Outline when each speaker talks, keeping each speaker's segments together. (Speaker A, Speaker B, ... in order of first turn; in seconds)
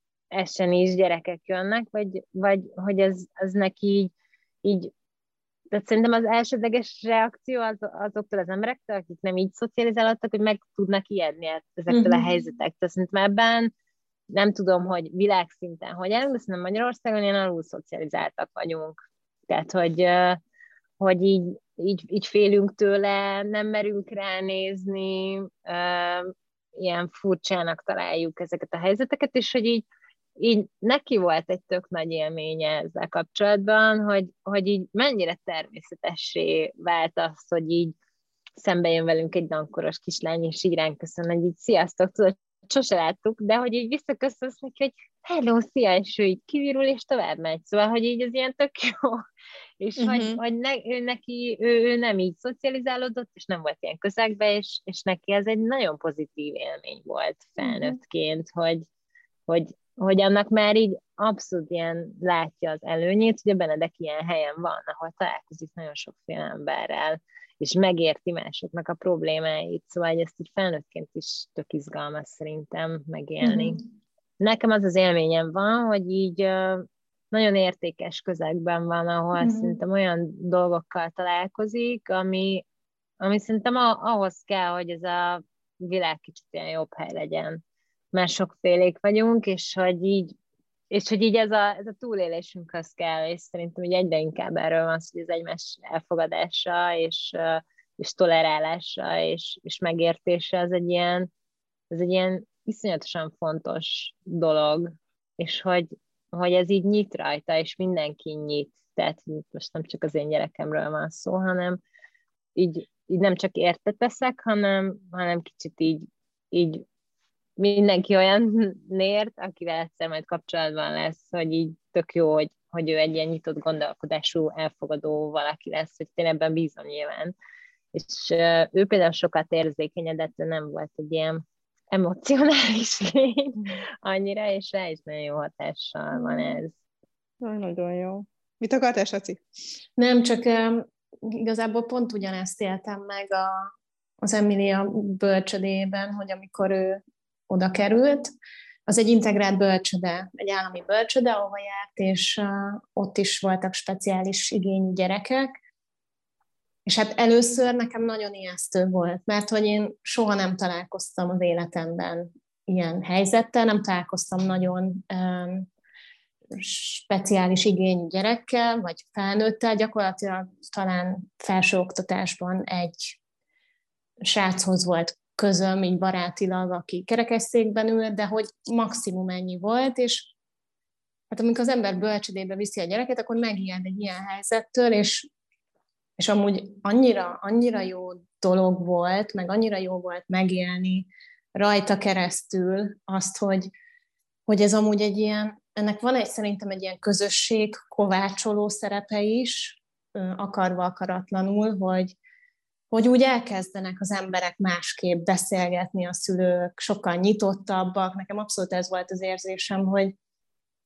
Speaker A: 0.3-4.1, 4.6-4.9, 5.7-13.7, 14.3-20.4, 21.0-29.8, 30.4-37.9, 38.6-49.2, 49.8-58.9, 59.5-73.8, 74.4-82.6, 83.2-87.6, 88.1-90.3, 90.9-101.3, 101.9-111.8, 112.5-116.8, 117.6-127.3, 127.9-136.7
Speaker B: 11.9-12.3, 73.4-73.7, 79.4-79.8, 136.1-136.6, 140.0-143.7, 144.2-148.3, 148.9-155.5, 156.8-165.7, 166.5-173.2, 174.2-180.3, 181.3-185.3, 186.2-193.7, 194.5-202.1, 202.9-210.1
Speaker C: 50.0-50.4, 137.4-139.4